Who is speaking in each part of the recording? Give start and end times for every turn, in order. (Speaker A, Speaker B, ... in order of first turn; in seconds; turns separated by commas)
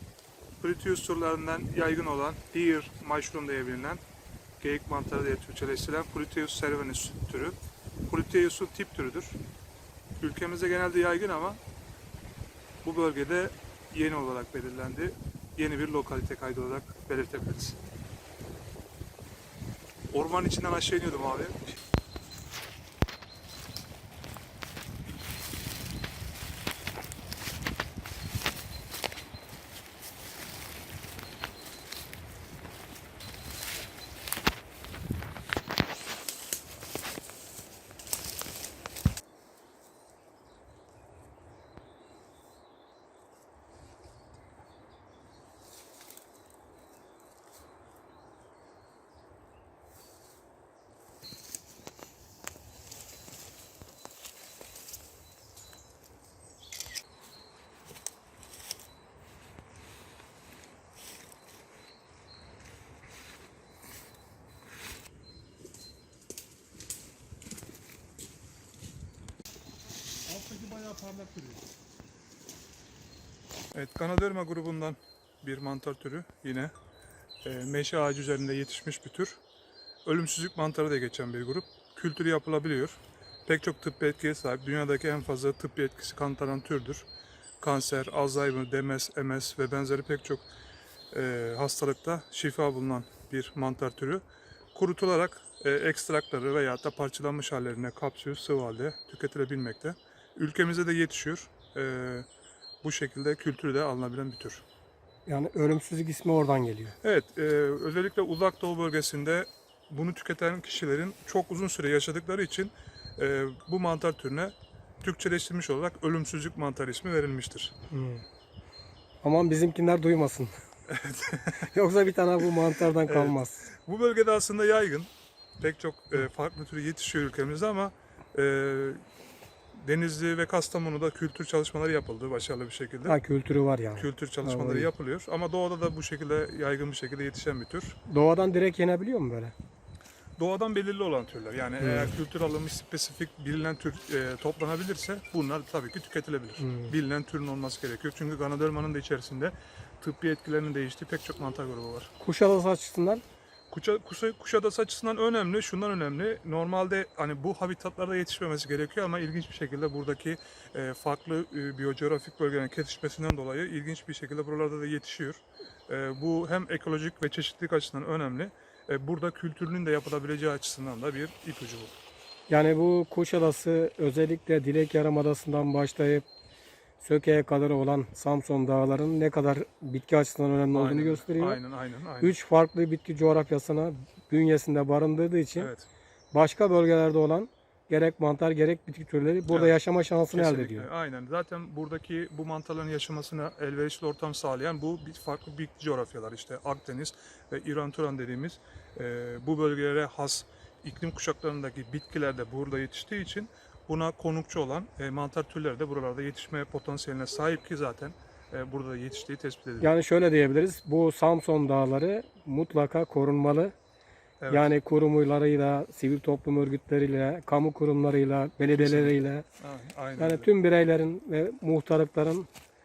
Speaker A: 0.6-4.0, Speaker A: 4.6-9.4, Speaker A: 10.2-11.6, Speaker A: 12.8-17.8, Speaker A: 20.1-21.7, Speaker A: 70.4-71.4, Speaker A: 73.7-76.7, Speaker A: 77.4-79.4, Speaker A: 80.0-87.1, Speaker A: 87.6-90.5, Speaker A: 91.1-94.2, Speaker A: 94.7-102.2, Speaker A: 102.8-104.6, Speaker B: 105.2-107.0, Speaker A: 107.0-117.7, Speaker B: 117.9-118.2, Speaker B: 119.2-120.5, Speaker A: 120.9-121.7, Speaker B: 121.7-123.6, Speaker A: 123.0-125.1, Speaker A: 125.6-129.0, Speaker A: 129.8-133.2, Speaker B: 133.1-134.9, Speaker A: 134.0-138.0, Speaker B: 138.1-139.5, Speaker A: 140.4-152.1, Speaker B: 141.8-142.1, Speaker B: 146.6-146.9, Speaker B: 152.2-153.2, Speaker A: 153.7-171.9, Speaker B: 172.5-176.2, Speaker B: 177.0-181.6, Speaker A: 180.7-182.3, Speaker B: 182.2-185.7, Speaker A: 185.6-185.9, Speaker B: 186.3-190.9, Speaker A: 189.5-189.8, Speaker A: 190.3-209.9, Speaker B: 209.8-213.7, Speaker A: 214.4-214.7, Speaker B: 214.5-219.4, Speaker A: 218.7-220.5, Speaker B: 220.2-222.5